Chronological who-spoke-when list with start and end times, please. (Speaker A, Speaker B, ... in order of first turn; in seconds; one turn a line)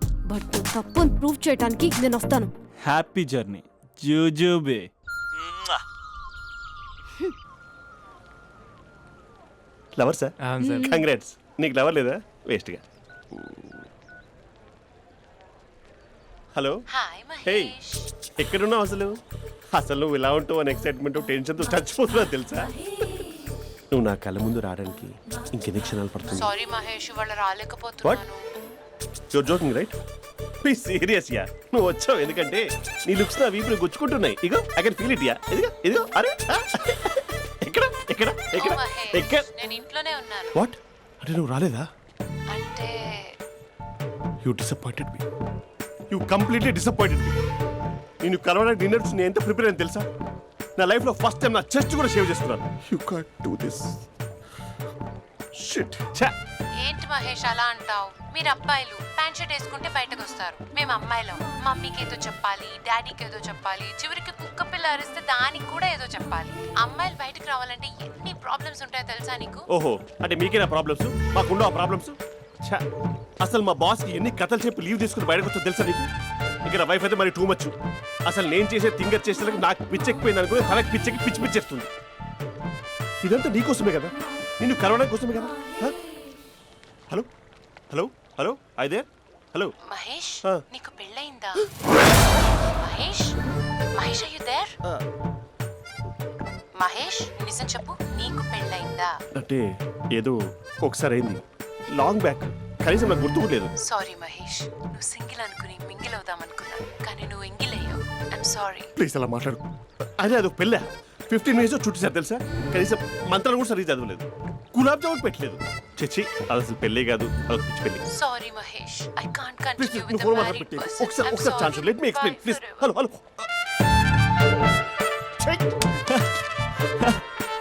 Speaker A: 0.3-2.5
Speaker B: 2.8-5.8
Speaker C: 9.9-13.8
Speaker A: 10.6-11.0
Speaker C: 16.5-16.8
Speaker D: 16.9-18.1
Speaker C: 17.4-17.7
Speaker C: 18.4-19.2
Speaker C: 19.7-22.7
Speaker C: 23.9-26.5
Speaker D: 26.3-28.4
Speaker C: 29.3-29.9
Speaker C: 30.6-39.5
Speaker D: 38.5-40.6
Speaker C: 40.6-41.9
Speaker D: 42.5-43.2
Speaker C: 44.4-45.2
Speaker C: 46.1-47.4
Speaker C: 48.2-50.1
Speaker C: 50.8-54.0
Speaker C: 55.6-56.3
Speaker D: 56.8-69.6
Speaker C: 69.7-72.8
Speaker C: 73.4-76.1
Speaker C: 76.6-77.7
Speaker C: 78.2-81.9
Speaker C: 83.2-86.0
Speaker C: 87.9-89.7
Speaker D: 89.9-91.7
Speaker D: 92.7-93.3
Speaker D: 94.0-94.7
Speaker D: 96.8-99.1
Speaker C: 99.4-101.4
Speaker C: 101.9-103.7
Speaker D: 103.8-108.9
Speaker C: 109.0-109.6
Speaker C: 110.2-118.0
Speaker D: 118.1-122.9
Speaker C: 119.8-123.5
Speaker C: 125.4-125.7